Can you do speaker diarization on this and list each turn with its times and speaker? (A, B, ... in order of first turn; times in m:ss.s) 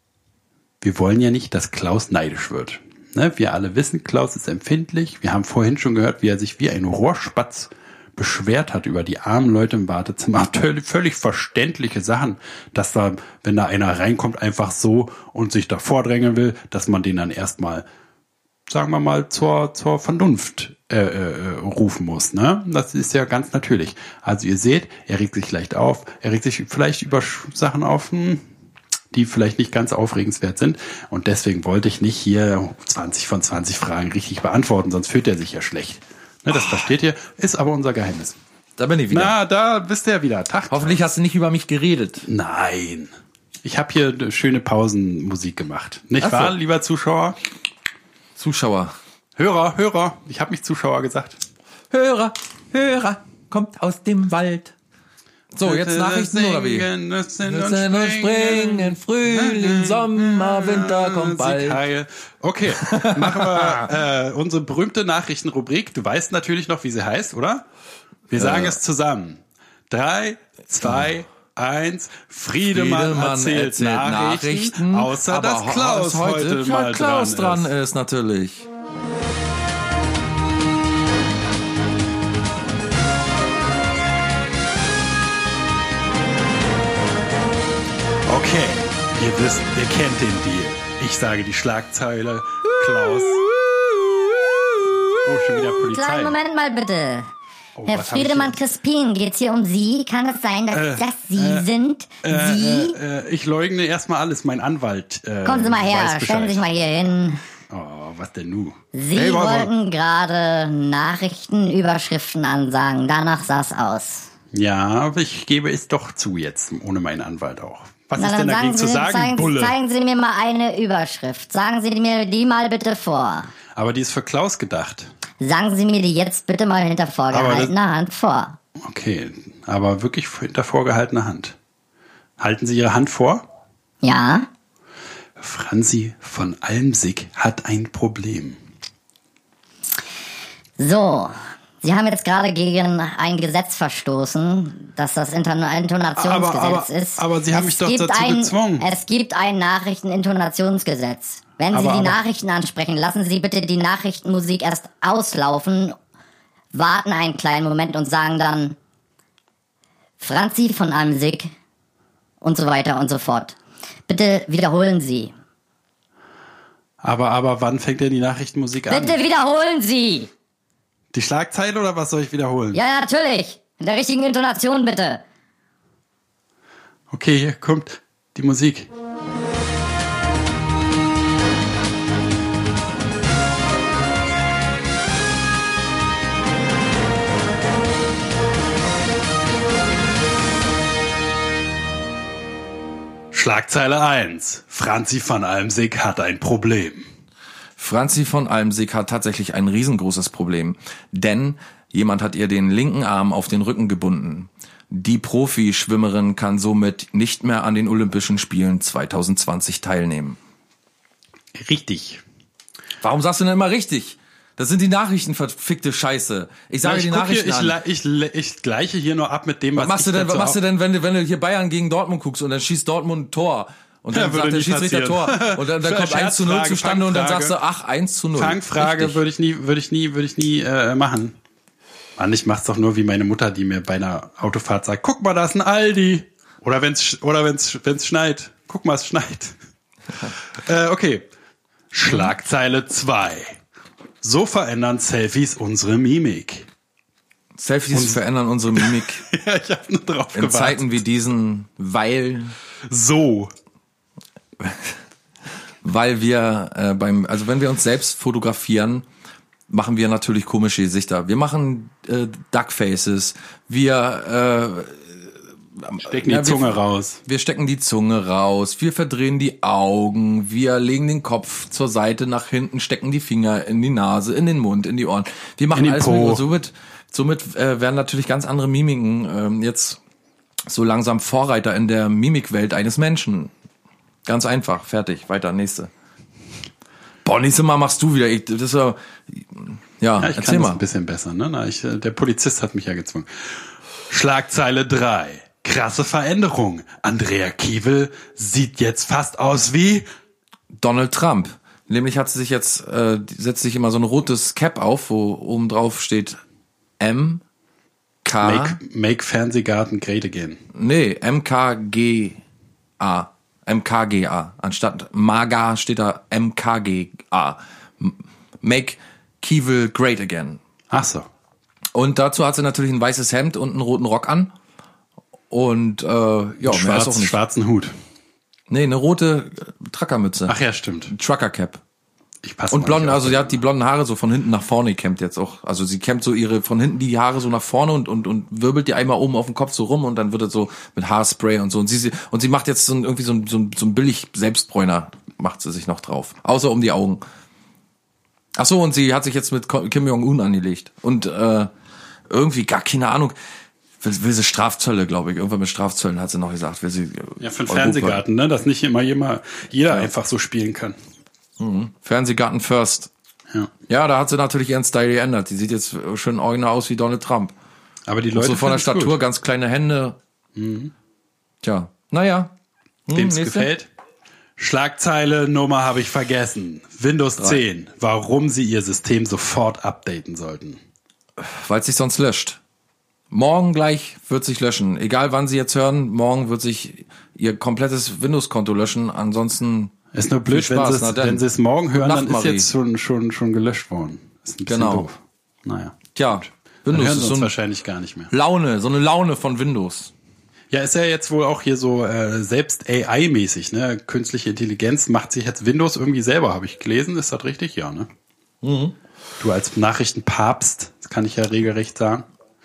0:00.8-0:17.8 A
0:18.7-0:28.4 A
0:29.1-0:38.4 A
0:38.8-0:39.4 B
0:39.1-0:41.0 A
0:40.7-0:42.3 B
0:42.2-0:43.1 A
0:43.6-0:47.4 A
0:46.2-0:46.5 B
0:48.4-0:48.9 B
0:49.4-0:51.4 A
0:51.9-0:54.7 B
0:55.5-0:56.9 B
0:55.6-1:07.6 A
0:57.4-1:01.8 B
1:02.7-1:03.9 B
1:08.3-1:17.7 A
1:08.3-1:08.8 B
1:12.7-1:18.7 B
1:28.3-1:33.4 A
1:35.2-1:36.4 A
1:35.9-1:37.3 C
1:37.8-1:38.6 A
1:37.9-1:43.0 C
1:40.7-1:41.7 A
1:42.2-1:46.6 A
1:45.4-1:47.4 C
1:47.7-1:49.7 A
1:48.9-1:54.3 C
1:54.5-1:59.8 A
1:58.2-2:03.5 C
2:03.7-2:05.1 A
2:05.4-2:08.6 C
2:07.3-2:07.7 A
2:08.8-2:11.6 A
2:12.4-2:13.4 A
2:14.0-2:14.5 C
2:15.4-2:18.6 A
2:20.8-2:36.0 C
2:26.1-2:28.8 A
2:31.7-2:32.2 A
2:36.7-2:38.8 C
2:40.2-2:41.5 C
2:42.4-2:43.6 C
2:44.1-2:45.3 C
2:47.0-2:49.2 A
2:48.9-2:50.3 C
2:51.1-2:52.8 A
2:52.7-2:55.2 C
2:57.1-2:58.9 A
3:13.3-3:17.1 A
3:17.8-3:30.4 B
3:31.5-3:32.2 A
3:33.0-3:37.8 B
3:36.8-3:40.6 A
3:39.8-3:49.2 B
3:44.1-3:47.6 A
3:48.3-3:51.4 A
3:52.2-3:59.5 A
4:00.5-4:01.3 A
4:01.9-4:03.6 A
4:04.2-4:06.7 A
4:07.6-4:09.2 B
4:07.9-4:08.2 A
4:08.7-4:11.0 A
4:10.3-4:12.5 B
4:12.9-4:13.5 A
4:14.6-4:14.9 B
4:15.8-4:19.0 B
4:19.7-4:25.2 B
4:25.8-4:40.0 B
4:26.0-4:27.2 A
4:35.7-4:36.4 A
4:40.7-4:43.5 B
4:44.2-4:45.9 B
4:47.2-4:50.8 B
4:50.2-5:00.0 A
5:00.7-5:06.4 B
5:07.0-5:07.4 B
5:08.2-5:08.8 B
5:08.4-5:10.6 A
5:10.7-5:12.4 B
5:13.0-5:20.6 B
5:20.9-5:21.3 A
5:21.9-5:24.5 B
5:25.5-5:27.4 B
5:26.6-5:27.9 A
5:28.7-5:30.5 B
5:30.4-5:31.1 A
5:31.1-5:31.8 B
5:32.4-5:33.6 A
5:32.7-5:47.2 B
5:48.6-5:51.7 B
5:52.3-5:53.3 B
5:54.0-5:58.2 B
5:57.4-6:01.0 A
6:01.6-6:03.1 B
6:03.9-6:07.5 B
6:08.1-6:09.2 A
6:08.3-6:10.2 B
6:10.5-6:10.9 A
6:11.6-6:12.5 B
6:13.1-6:13.7 B
6:13.1-6:13.9 A
6:14.6-6:20.8 A
6:21.4-6:22.6 B
6:23.3-6:29.9 B
6:30.1-6:38.3 A
6:30.5-6:31.4 B
6:31.9-6:32.7 B
6:34.7-6:35.1 B
6:36.1-6:37.5 B
6:38.3-6:40.1 B
6:40.7-6:48.1 A
6:48.6-6:48.9 B
6:49.4-6:52.2 A